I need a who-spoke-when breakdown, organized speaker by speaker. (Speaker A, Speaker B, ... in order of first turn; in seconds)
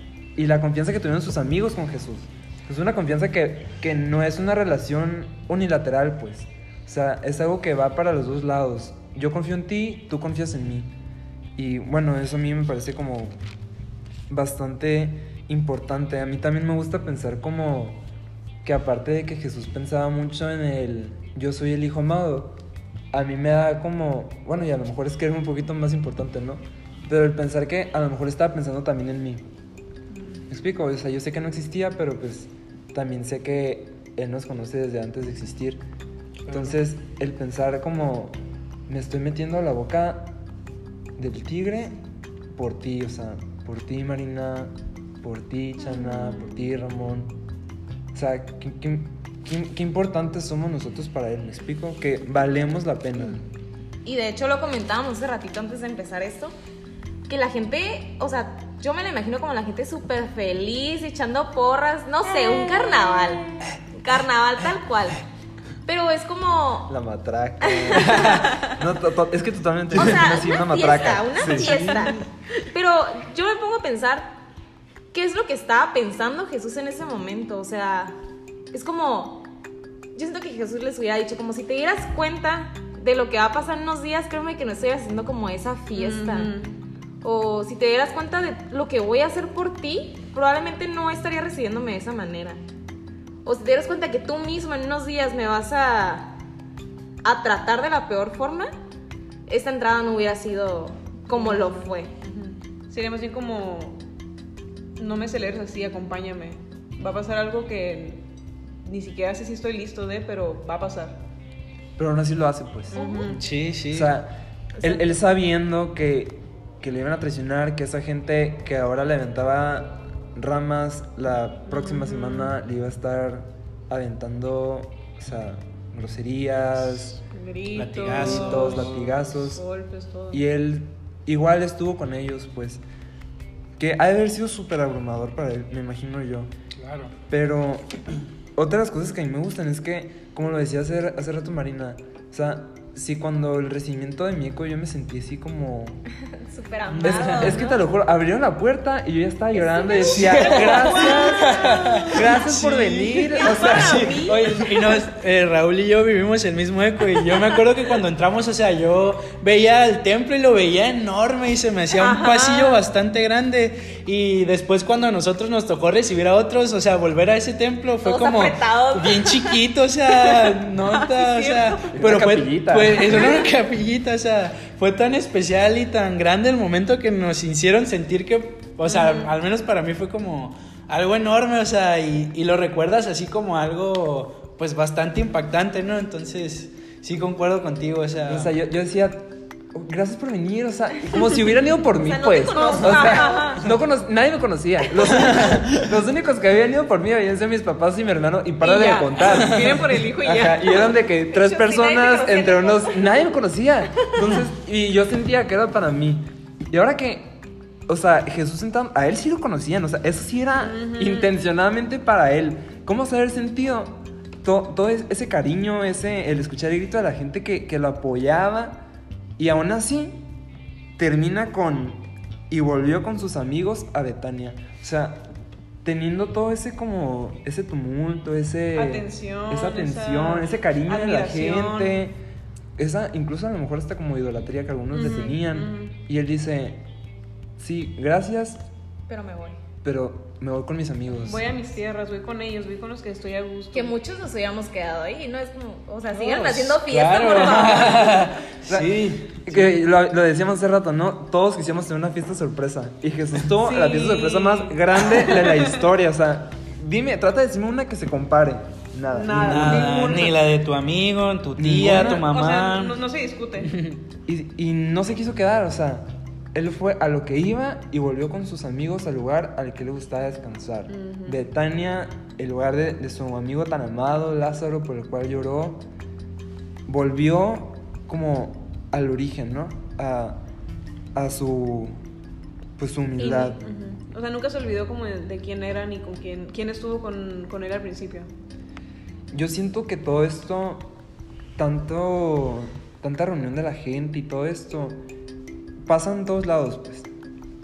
Speaker A: 0.3-10.9, 11.6-13.4, 14.3-18.0, 18.6-22.6, 23.1-29.4, 30.5-35.8, 36.5-38.4, 38.9-40.4, 41.2-42.0, 42.5-47.3, 48.1-53.5, 66.9-72.0, 112.0-113.2, 113.9-127.2, 128.1-129.6, 130.3-132.8, 133.8-136.5, 137.3-138.0, 138.5-146.0, 147.0-154.2, 171.9-173.2, 188.3-218.8, 219.4-220.2, 221.0-225.3, 225.8-232.2, 232.8-236.8, 237.6-238.6, 239.8-241.5, 248.7-260.2, 261.6-262.3, 264.3-275.9, 276.9-280.4, 281.1-281.9, 282.8-283.6, 289.3-290.9, 291.6-295.0, 295.9-297.1
Speaker B: 36.4-36.8, 68.0-68.4, 113.3-114.1, 127.7-129.2, 136.8-137.1, 146.9-147.6, 150.0-188.5, 246.1-249.8, 259.3-263.0, 263.6-264.0
Speaker C: 54.0-56.5, 57.3-65.2, 65.8-66.9, 67.6-68.8, 69.9-74.4, 75.1-78.2, 78.7-79.5, 80.1-86.5, 87.2-92.6, 93.4-96.4, 97.2-98.7, 99.5-102.1, 112.9-113.3, 146.3-147.8, 150.0-151.8, 168.0-169.6, 170.2-170.6, 192.0-193.6, 201.3-203.2, 239.1-239.6, 243.7-248.3
Speaker D: 71.5-72.2, 85.9-86.8, 101.3-104.0, 105.0-108.2, 108.8-111.2, 112.9-113.4, 121.7-122.6, 127.3-130.4, 150.7-152.1, 153.3-154.8, 162.0-162.8, 171.1-171.7, 178.8-179.3, 192.4-193.6, 198.6-201.0, 210.6-211.3, 228.7-232.0, 234.9-235.9, 241.2-243.9, 253.6-255.7, 259.1-260.4, 262.0-263.7, 270.9-271.4, 283.2-288.3